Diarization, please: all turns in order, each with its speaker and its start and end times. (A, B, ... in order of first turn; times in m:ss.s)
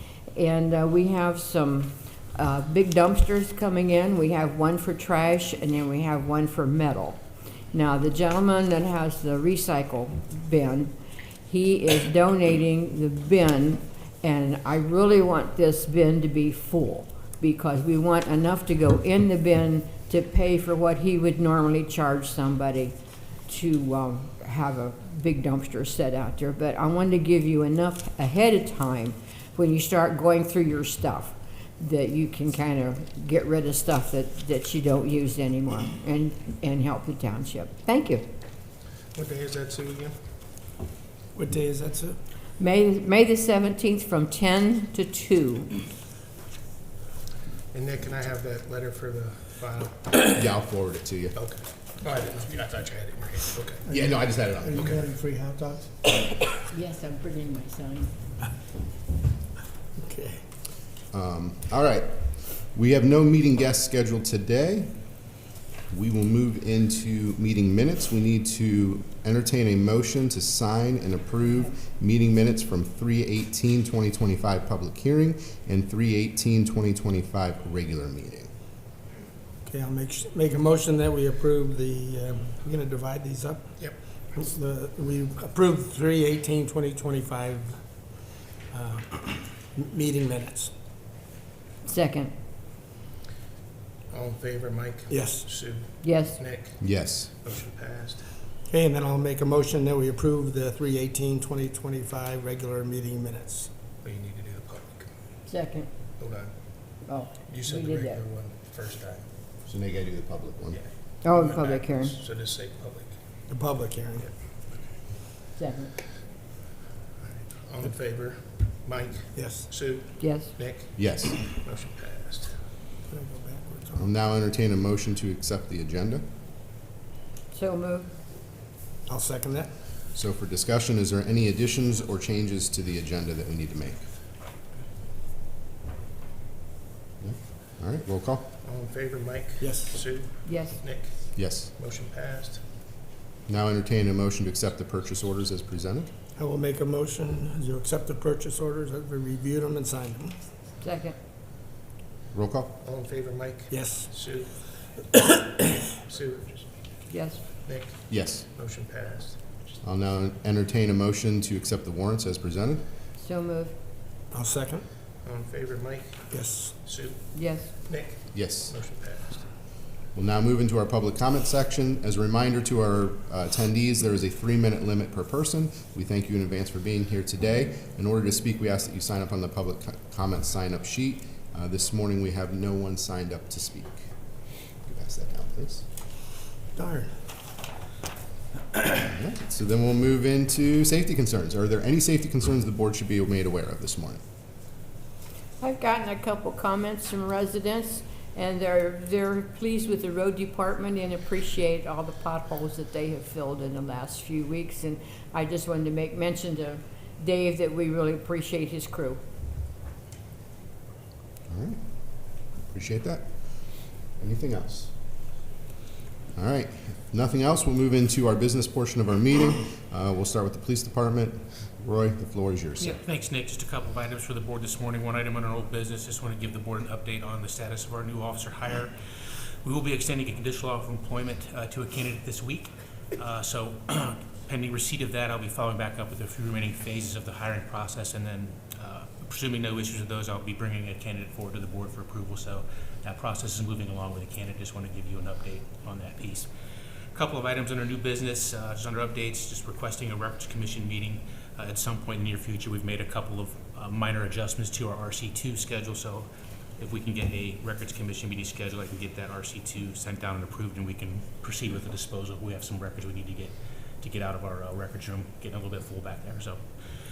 0:00.4-0:07.2 A
0:07.7-0:10.9 A
0:11.5-0:22.9 A
0:23.5-0:38.3 A
0:39.2-0:40.2 B
0:41.4-0:42.2 C
0:42.6-0:45.8 A
0:47.7-0:50.3 B
0:50.2-0:51.4 D
0:51.4-0:53.9 B
0:53.9-0:56.0 C
0:53.9-0:54.8 D
0:54.7-0:55.1 B
0:56.7-0:58.1 A
1:00.0-1:00.4 C
1:01.1-1:04.9 D
1:05.9-1:18.5 D
1:19.7-1:23.7 C
1:24.3-1:27.8 C
1:28.7-1:30.7 C
1:31.8-1:32.3 A
1:34.1-1:38.2 B
1:35.1-1:35.5 C
1:36.0-1:36.4 A
1:36.8-1:37.3 D
1:38.7-1:43.7 C
1:44.0-1:45.1 B
1:45.5-1:45.9 A
1:46.2-1:46.5 B
1:47.1-1:48.2 A
1:47.5-1:49.3 B
1:49.7-1:50.8 D
1:50.7-1:53.2 B
1:51.2-1:52.2 A
1:53.5-1:54.3 C
1:54.2-1:54.9 B
1:55.6-1:56.0 A
1:57.2-2:02.6 B
1:59.3-1:59.7 C
2:00.2-2:00.5 A
2:01.0-2:01.4 D
2:03.1-2:04.0 C
2:04.0-2:06.2 D
2:07.5-2:08.1 A
2:09.1-2:09.7 C
2:10.1-2:14.0 D
2:17.2-2:18.5 D
2:18.6-2:22.6 B
2:19.6-2:20.0 C
2:20.4-2:20.8 A
2:21.4-2:21.7 D
2:23.5-2:26.1 D
2:26.4-2:30.4 C
2:30.8-2:31.2 A
2:32.3-2:32.8 D
2:32.8-2:34.5 B
2:33.7-2:34.1 C
2:35.1-2:35.8 C
2:36.0-2:36.7 B
2:37.1-2:37.4 A
2:37.6-2:39.7 B
2:38.1-2:38.5 D
2:39.8-2:42.8 D
2:43.2-2:43.7 A
2:44.3-2:44.8 C
2:45.2-2:46.3 B
2:46.3-2:46.8 C
2:46.8-2:47.3 B
2:47.3-2:47.7 A
2:47.8-2:49.5 B
2:48.3-2:48.8 D
2:50.1-3:04.1 D
3:04.8-3:05.8 D
3:06.8-3:07.1 C
3:08.8-3:14.2 D
3:15.6-3:29.2 A
3:31.5-3:31.8 D
3:32.7-3:34.9 D
3:36.4-3:43.0 D
3:42.8-3:48.9 E
3:49.6-4:06.5 E
4:07.1-4:26.6 E